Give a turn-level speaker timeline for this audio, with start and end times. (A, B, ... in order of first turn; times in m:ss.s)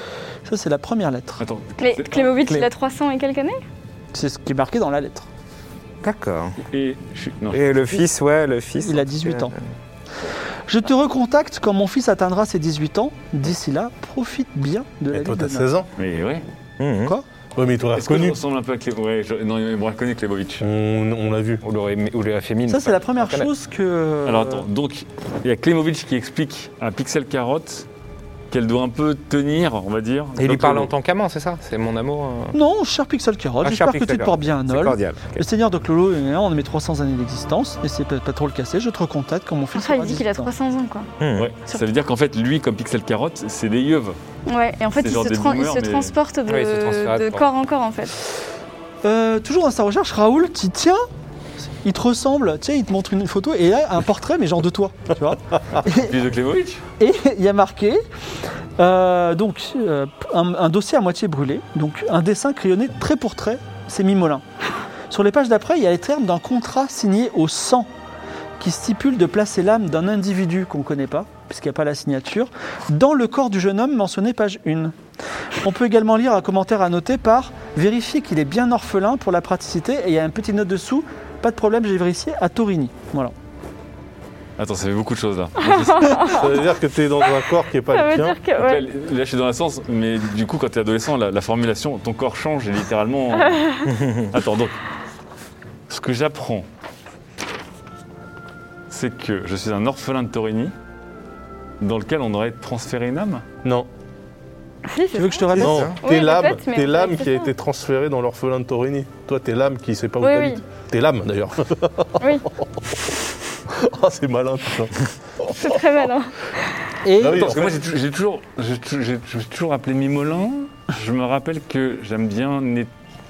0:00.4-0:01.4 A
0:01.4-0:02.4 B
0:01.8-0:03.6 C
0:04.1-0:05.3 A
0:06.0-0:06.6 D
0:06.7-0:08.0 B
0:07.5-0:09.6 D
0:08.8-0:09.5 A
0:10.7-0:15.7 A
0:15.1-0:15.9 E
0:16.0-0:16.4 B
0:16.8-0:17.1 D
0:17.6-0:18.4 E
0:17.9-0:20.6 B
0:20.6-0:21.6 E
0:21.6-0:23.5 D
0:22.7-0:24.6 A
0:24.2-0:27.8 B
0:28.5-0:30.9 B
0:30.4-0:32.6 D
0:32.5-0:40.5 A
0:33.6-0:35.4 D
0:39.7-0:41.1 C
0:41.2-0:41.5 D
0:41.4-0:44.2 B
0:44.5-0:48.1 C
0:45.0-0:46.1 B
0:46.5-0:47.4 D
0:49.0-0:51.0 A
0:51.8-0:56.1 A
0:55.8-0:56.8 B
0:57.0-0:58.0 A
0:58.8-1:04.4 A
1:05.1-1:07.9 A
1:08.6-1:15.0 A
1:15.6-1:23.3 A
1:24.6-1:26.4 B
1:25.6-1:26.5 C
1:26.2-1:28.4 E
1:27.9-1:28.8 C
1:28.6-1:34.8 B
1:33.4-1:33.9 C
1:35.9-1:36.6 B
1:38.9-1:40.7 B
1:41.8-1:43.4 B
1:44.9-1:47.5 C
1:45.1-1:45.9 A
1:45.6-1:46.0 D
1:45.6-1:53.0 E
1:50.2-1:50.6 C
1:52.2-1:52.4 C
1:53.7-1:55.8 E
1:55.6-1:56.3 C
1:57.0-1:57.5 A
1:57.2-1:57.8 E
1:57.3-2:02.9 B